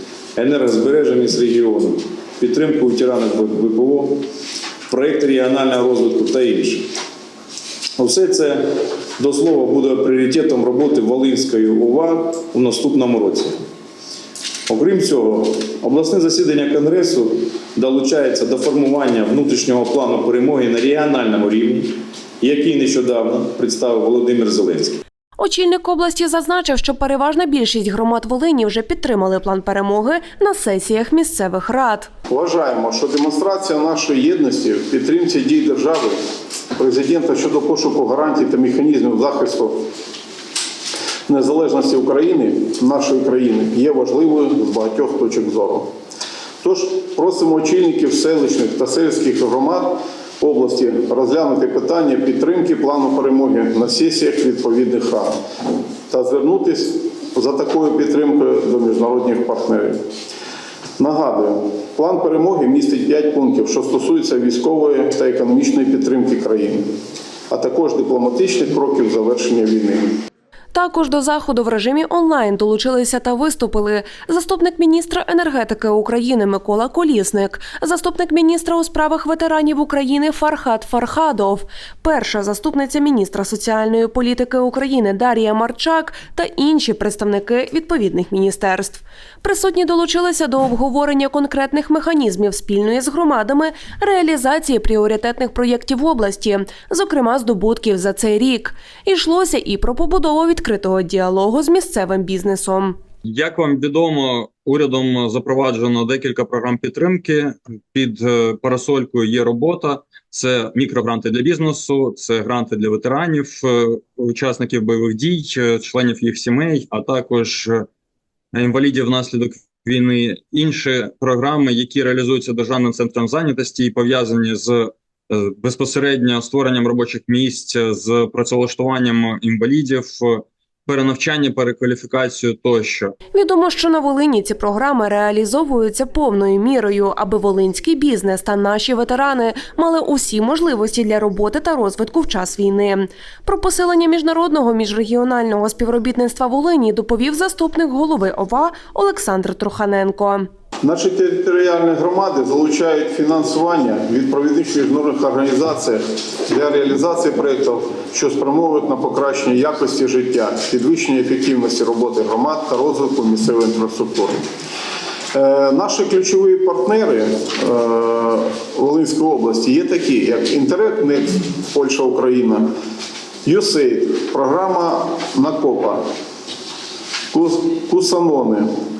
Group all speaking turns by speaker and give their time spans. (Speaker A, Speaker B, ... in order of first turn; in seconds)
Speaker A: 0.3-4.2, 4.9-6.9, 8.0-8.6, 9.2-13.5, 14.7-25.0
Speaker B: 25.4-32.1, 70.7-103.0, 133.3-150.4
Speaker C: 32.3-36.2, 36.8-39.8, 41.3-45.9, 46.6-55.3, 56.1-60.0, 61.0-66.8, 67.5-70.2, 150.8-164.4, 165.3-172.7, 173.4-176.0, 177.3-178.7
Speaker D: 103.2-117.9, 118.5-133.1